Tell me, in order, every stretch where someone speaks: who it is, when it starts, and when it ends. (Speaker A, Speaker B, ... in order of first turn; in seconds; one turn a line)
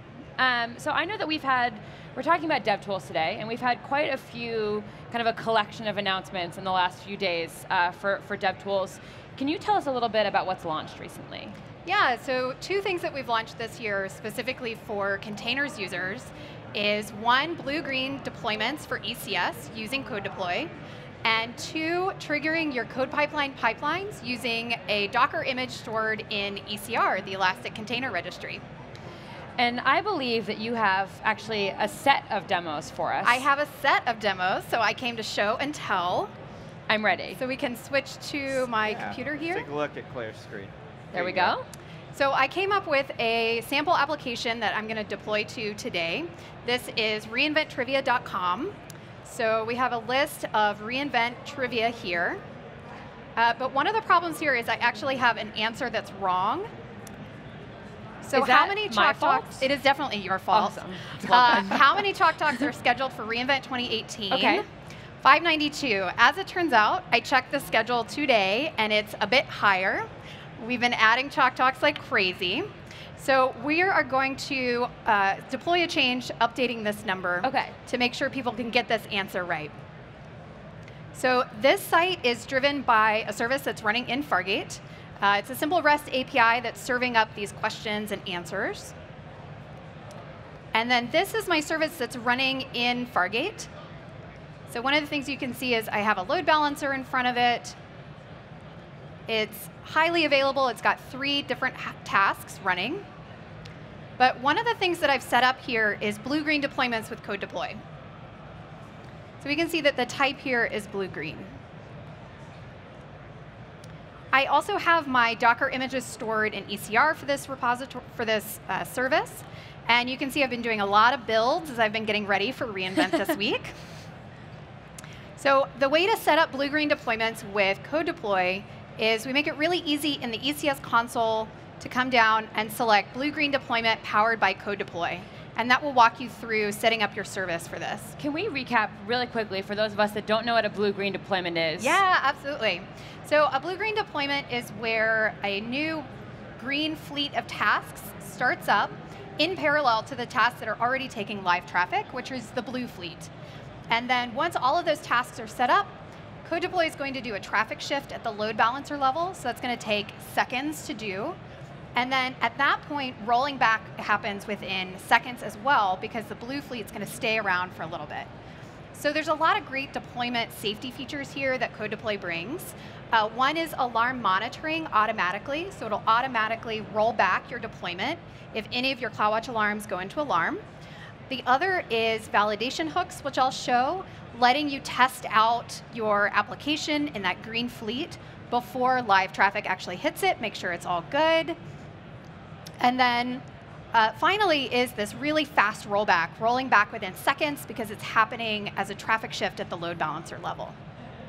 Speaker A: 0.4-11.6
Speaker B: 11.9-20.7
Speaker B: 21.2-28.6
Speaker A: 29.6-33.5
Speaker B: 33.2-36.3
Speaker A: 36.9-37.4
Speaker B: 37.4-39.7
Speaker C: 38.8-41.5
Speaker A: 41.1-41.6
Speaker B: 42.1-52.4
Speaker B: 53.4-56.7
Speaker B: 58.2-64.6
Speaker A: 58.3-59.7
Speaker A: 60.5-62.0
Speaker A: 64.3-64.6
Speaker B: 65.2-70.1
Speaker B: 70.6-72.7
Speaker B: 73.2-79.7
Speaker A: 77.4-77.8
Speaker B: 81.1-88.9
Speaker B: 90.7-93.7
Speaker B: 94.7-97.8
Speaker B: 99.3-103.0
Speaker B: 104.2-107.8
Speaker B: 109.4-111.5
Speaker B: 114.3-123.8
Speaker B: 125.4-138.2
Speaker A: 138.2-142.0
Speaker B: 141.8-153.3
Speaker B: 153.9-155.9
Speaker B: 156.4-161.4
Speaker B: 162.0-168.3
Speaker B: 168.9-180.6
Speaker B: 181.3-191.6
Speaker B: 192.8-193.4
Speaker B: 193.9-200.8